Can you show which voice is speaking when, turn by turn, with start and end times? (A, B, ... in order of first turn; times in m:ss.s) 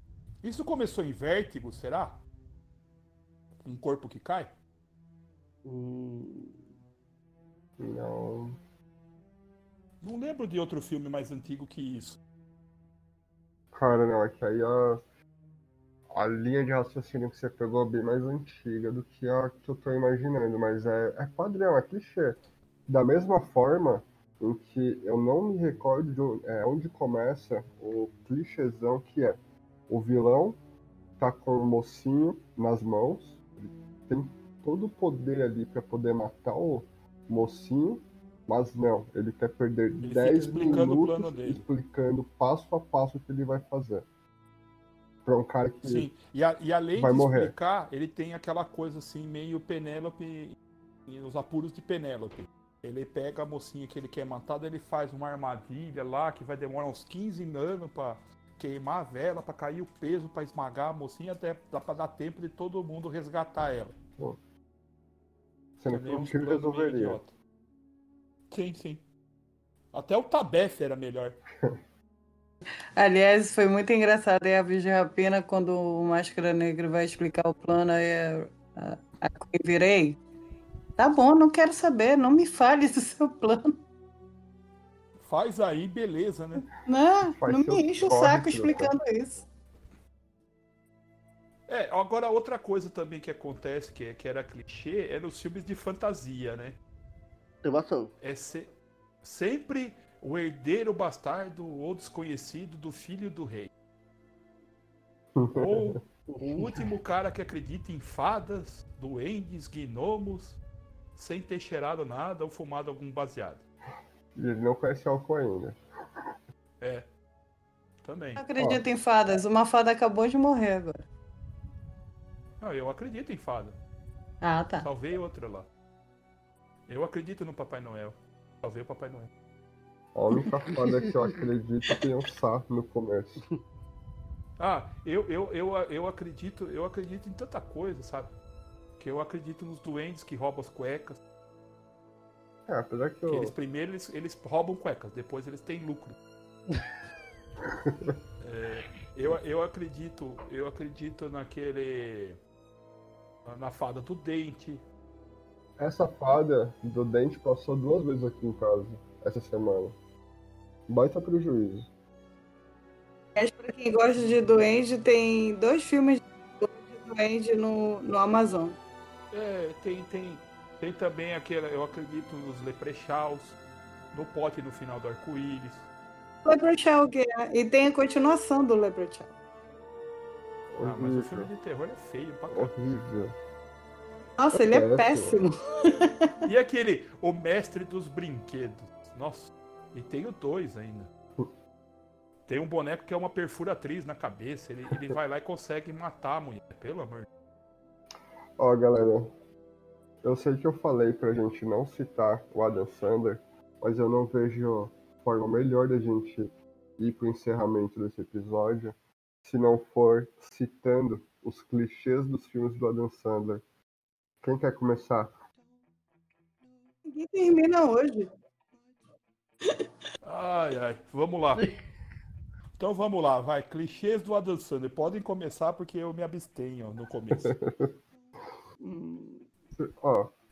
0:00.4-0:02.2 A
0:03.6-0:04.5 A
0:05.6-0:06.7 B
0:07.8-0:08.6 C
0:10.0-0:12.2 A
0:13.7-0:15.0 C
0:16.1-0:30.6 C
0:31.2-0:44.1 C
0:40.0-0:41.6 A
0:45.2-0:46.1 C
0:45.8-1:04.0 A
0:47.0-0:47.5 C
1:05.8-1:07.2 C
1:05.9-1:07.3 A
1:08.5-1:09.0 A
1:09.9-1:11.4 A
1:13.0-1:20.2 D
1:21.0-1:23.8 D
1:25.2-1:26.7 A
1:26.9-1:29.5 D
1:27.4-1:29.0 C
1:31.7-1:36.8 A
1:37.6-1:38.1 B
1:38.2-1:38.7 A
1:39.2-1:43.7 A
1:45.4-1:46.0 C
1:45.5-1:50.6 A
1:46.3-1:46.6 B
1:51.2-1:53.6 A
1:54.4-1:55.8 C
1:56.8-1:57.1 A
1:58.0-1:58.4 A
1:58.4-2:01.1 D
2:02.6-2:03.8 A
2:04.4-2:04.9 D
2:04.8-2:05.7 A
2:06.9-2:09.3 A
2:10.2-2:13.4 C
2:14.6-2:18.3 A
2:19.0-2:21.2 A
2:22.7-2:23.5 C
2:23.3-2:26.2 A
2:27.7-2:28.2 C
2:28.4-2:32.4 A
2:33.4-2:34.8 A
2:35.8-2:40.0 C
2:40.9-2:41.9 C
2:43.4-2:48.8 D
2:49.3-2:53.6 A
2:54.1-2:55.9 A
2:56.4-2:59.3 D
3:00.7-3:01.5 C
3:00.8-3:02.7 A
3:02.5-3:03.4 C
3:04.4-3:06.3 D
3:04.5-3:05.4 C
3:06.4-3:11.1 A
3:12.5-3:17.3 A
3:18.6-3:19.3 C
3:20.2-3:33.6 C
3:34.4-3:35.3 C
3:37.1-3:38.3 D
3:40.2-3:41.6 A
3:42.8-3:47.6 A
3:47.4-3:47.9 C
3:48.8-3:49.5 B
3:49.8-3:50.3 C